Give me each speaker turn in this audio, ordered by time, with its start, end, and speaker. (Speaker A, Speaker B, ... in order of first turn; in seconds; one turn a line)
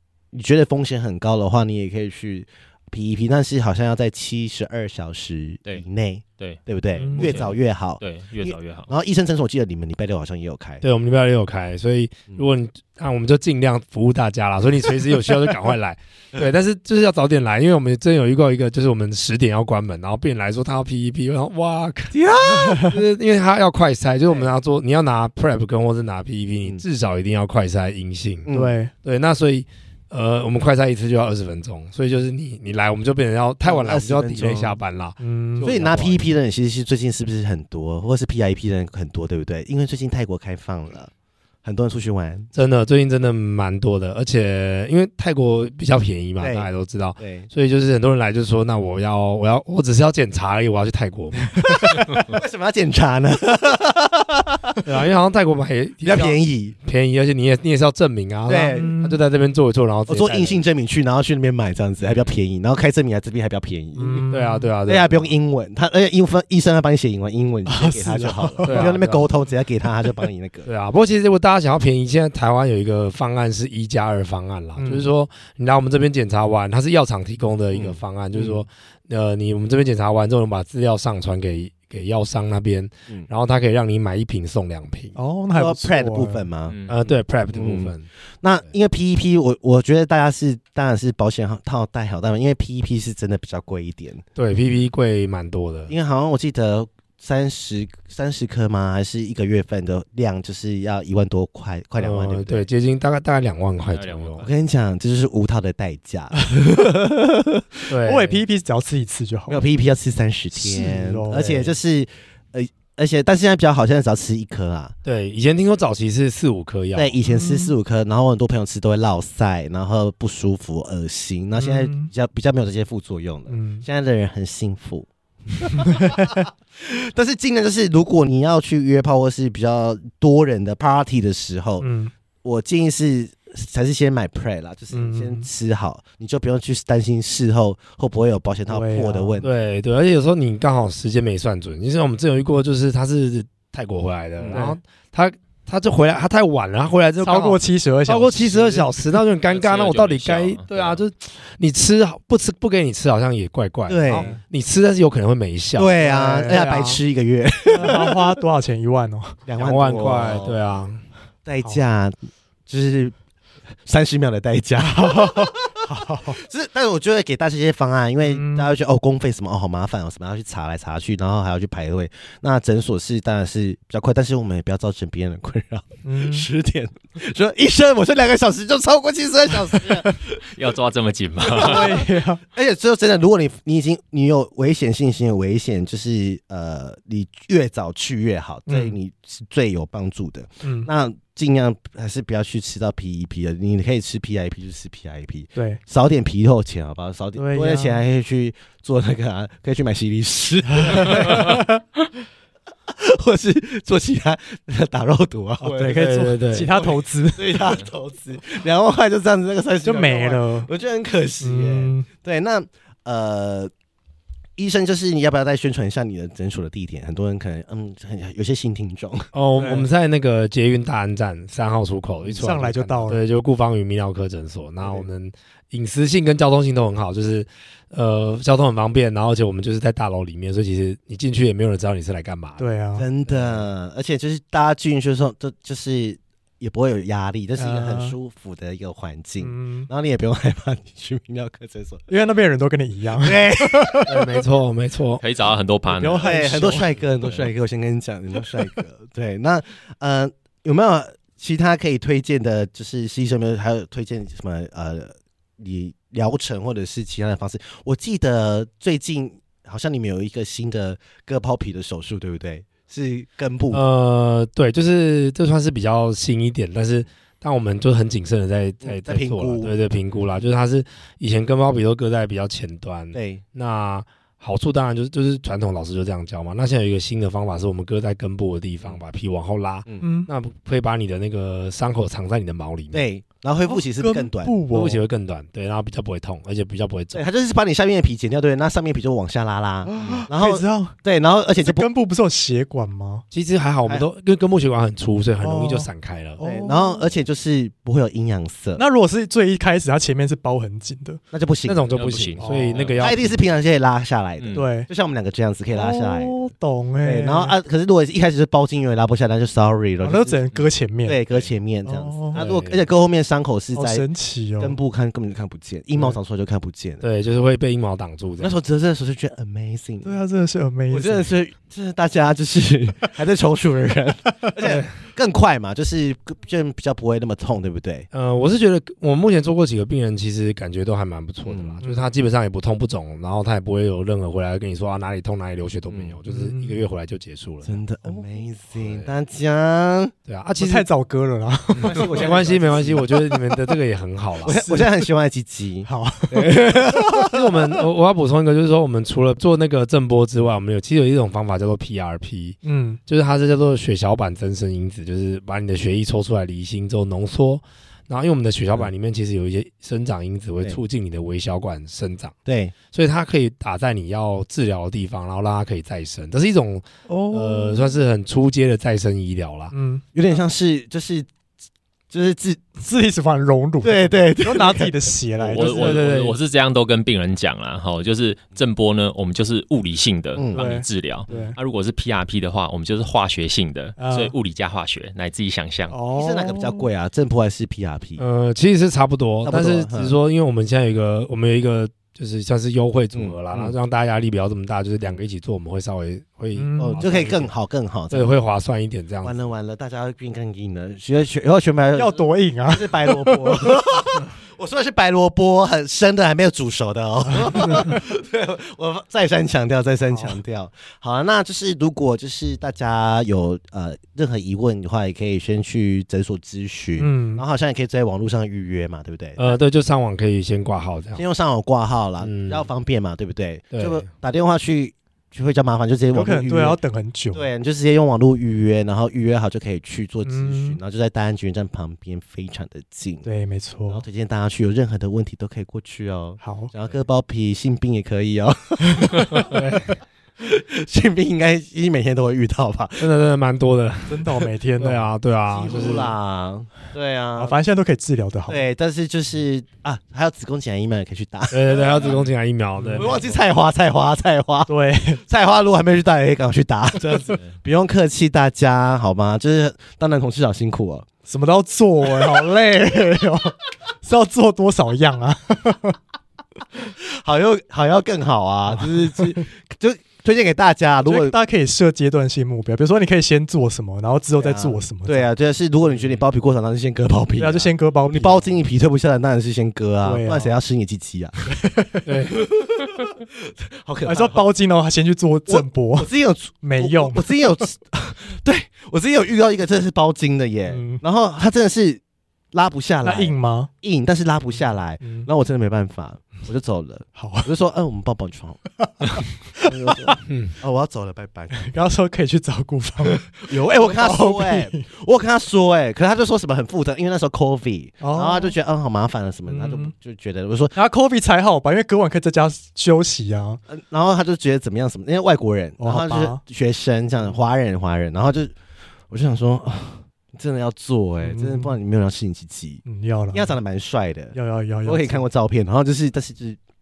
Speaker A: 0.3-10.8
Speaker B: 6.4-8.9
Speaker C: 7.0-7.5
Speaker D: 10.8-28.5
Speaker A: 22.1-22.9
Speaker C: 22.6-23.0
Speaker A: 28.5-28.8
Speaker C: 28.5-28.9
Speaker D: 29.0-36.2
Speaker A: 33.6-34.8
Speaker C: 35.2-35.7
Speaker A: 35.6-41.1
Speaker A: 41.6-42.5
Speaker D: 42.5-52.0
Speaker A: 46.4-47.5
Speaker C: 51.6-52.3
Speaker A: 51.9-54.8
Speaker D: 54.9-60.6
Speaker A: 56.0-56.8
Speaker A: 58.5-58.9
Speaker C: 58.7-59.2
Speaker A: 60.1-64.3
Speaker B: 62.0-62.3
Speaker C: 64.0-64.7
Speaker D: 64.3-65.3
Speaker A: 64.8-70.7
Speaker C: 67.7-69.0
Speaker D: 68.6-69.3
Speaker D: 70.7-85.2
Speaker C: 74.8-75.1
Speaker A: 77.7-78.6
Speaker C: 85.2-86.5
Speaker A: 85.6-86.8
Speaker B: 86.7-87.1
Speaker D: 86.9-88.1
Speaker A: 87.5-94.2
Speaker D: 94.4-95.9
Speaker A: 95.9-102.7
Speaker D: 102.0-104.4
Speaker B: 103.9-104.5
Speaker A: 104.4-107.7
Speaker D: 107.9-108.4
Speaker C: 108.0-109.6
Speaker A: 109.5-115.0
Speaker C: 110.5-111.8
Speaker D: 115.0-117.2
Speaker A: 117.0-131.9
Speaker C: 117.2-117.8
Speaker C: 121.6-122.1
Speaker C: 123.5-123.9
Speaker C: 125.9-126.2
Speaker C: 131.8-132.1
Speaker A: 132.4-139.5
Speaker C: 134.9-135.5
Speaker C: 138.7-139.4
Speaker D: 139.4-157.0
Speaker A: 144.4-144.7
Speaker C: 147.2-149.2
Speaker B: 149.5-151.0
Speaker A: 153.9-154.3
Speaker C: 154.1-154.4
Speaker A: 155.8-158.2
Speaker C: 156.0-156.6
Speaker C: 157.7-159.4
Speaker A: 159.5-160.6
Speaker D: 159.6-161.0
Speaker A: 161.4-163.2
Speaker A: 163.8-180.3
Speaker C: 164.8-166.4
Speaker C: 168.2-168.7
Speaker C: 176.0-176.5
Speaker C: 179.8-180.1
Speaker B: 180.4-182.0
Speaker A: 181.4-201.6
Speaker C: 181.5-182.4
Speaker C: 188.7-189.0
Speaker C: 190.6-190.9
Speaker C: 195.6-195.8
Speaker C: 197.4-198.0
Speaker C: 200.7-201.8
Speaker A: 202.9-213.7
Speaker C: 205.6-207.7
Speaker D: 205.9-206.8
Speaker C: 209.8-210.7
Speaker C: 211.4-212.1
Speaker A: 214.6-219.3
Speaker D: 219.3-232.6
Speaker C: 219.6-219.9
Speaker C: 222.2-223.2
Speaker C: 232.6-233.1
Speaker A: 233.0-242.1
Speaker C: 237.6-238.2
Speaker C: 239.4-239.9
Speaker C: 242.1-244.1
Speaker A: 243.2-244.1
Speaker D: 244.1-245.2
Speaker B: 245.2-246.4
Speaker C: 245.9-246.9
Speaker A: 246.2-263.8
Speaker B: 247.0-247.5
Speaker D: 263.7-283.1
Speaker A: 268.8-269.8
Speaker A: 273.1-273.4
Speaker C: 280.0-280.3
Speaker A: 282.9-284.6
Speaker C: 283.6-285.0
Speaker D: 284.7-287.2
Speaker A: 287.1-291.9
Speaker C: 289.9-291.0
Speaker C: 291.6-293.2
Speaker D: 293.3-296.4
Speaker C: 295.4-297.1
Speaker A: 296.4-298.8
Speaker C: 298.8-301.2
Speaker A: 301.3-301.9
Speaker D: 301.7-303.4
Speaker B: 301.9-303.2
Speaker C: 302.4-302.9
Speaker A: 303.0-306.4
Speaker B: 304.4-304.7
Speaker C: 304.5-304.9
Speaker C: 305.7-307.6
Speaker A: 307.0-310.4
Speaker C: 310.0-311.2
Speaker A: 311.1-314.1
Speaker C: 311.9-312.4
Speaker D: 312.4-312.9
Speaker C: 313.8-314.8
Speaker A: 314.6-317.0
Speaker D: 317.0-318.6
Speaker A: 318.4-320.2
Speaker C: 320.0-321.3
Speaker A: 320.9-328.1
Speaker D: 324.6-324.9
Speaker D: 328.1-337.8
Speaker A: 331.5-331.8
Speaker C: 331.8-332.1
Speaker A: 335.9-336.2
Speaker C: 336.3-336.9
Speaker A: 337.6-340.1
Speaker D: 338.8-339.1
Speaker D: 340.3-340.9
Speaker C: 340.6-343.8
Speaker A: 341.8-343.1
Speaker D: 341.8-344.6
Speaker C: 344.4-345.1
Speaker A: 344.4-347.7
Speaker C: 345.9-346.9
Speaker D: 347.3-362.4
Speaker C: 352.6-353.0
Speaker A: 362.5-362.7
Speaker D: 362.9-369.7
Speaker C: 367.1-367.9
Speaker C: 369.7-370.0
Speaker A: 370.1-371.3
Speaker A: 372.1-372.8
Speaker C: 372.8-376.2
Speaker A: 373.8-375.0
Speaker B: 375.4-386.0
Speaker D: 375.6-376.4
Speaker A: 380.4-380.7
Speaker C: 380.5-381.6
Speaker C: 384.0-384.3
Speaker C: 385.9-386.9
Speaker A: 386.1-388.2
Speaker D: 388.2-397.5
Speaker A: 389.4-390.2
Speaker A: 393.1-393.8
Speaker C: 396.6-397.0
Speaker A: 396.8-398.3
Speaker D: 398.1-399.4
Speaker A: 399.2-419.4
Speaker C: 401.9-403.7
Speaker C: 407.3-407.9
Speaker C: 410.1-410.4
Speaker C: 417.0-417.4
Speaker D: 419.4-421.2
Speaker A: 421.2-426.8
Speaker D: 422.2-422.7
Speaker D: 423.7-424.1
Speaker C: 426.1-427.5
Speaker A: 427.3-433.3
Speaker C: 430.2-430.8
Speaker C: 433.2-434.1
Speaker A: 433.9-439.6
Speaker C: 436.4-436.7
Speaker D: 439.4-440.0
Speaker A: 440.4-443.1
Speaker D: 443.0-446.1
Speaker C: 444.1-445.1
Speaker A: 445.5-447.6
Speaker C: 447.4-448.6
Speaker A: 448.5-452.2
Speaker D: 451.5-453.2
Speaker C: 452.8-453.2
Speaker A: 452.9-454.7
Speaker C: 454.7-455.2
Speaker A: 455.3-461.1
Speaker C: 461.3-466.0
Speaker A: 467.0-471.3
Speaker C: 468.7-469.4
Speaker C: 471.0-475.3
Speaker A: 474.4-481.5
Speaker C: 475.9-476.2
Speaker C: 477.4-478.6
Speaker C: 480.0-480.6
Speaker C: 481.6-482.1
Speaker D: 482.1-482.5
Speaker A: 482.3-483.1
Speaker A: 483.7-484.5
Speaker C: 484.1-487.3
Speaker A: 485.5-492.0
Speaker C: 490.7-491.0
Speaker A: 492.5-499.1
Speaker C: 493.0-493.7
Speaker C: 495.0-495.3
Speaker C: 497.1-497.5
Speaker C: 498.8-500.2
Speaker A: 499.6-501.7
Speaker D: 500.3-500.5
Speaker C: 501.6-504.9
Speaker A: 503.5-510.7
Speaker C: 508.0-508.6
Speaker C: 509.5-509.9
Speaker C: 510.7-513.6
Speaker A: 513.7-518.5
Speaker C: 515.8-516.4
Speaker A: 519.1-522.8
Speaker C: 521.2-521.8
Speaker C: 522.9-523.6
Speaker A: 523.3-524.4
Speaker C: 524.3-525.3
Speaker A: 524.9-526.6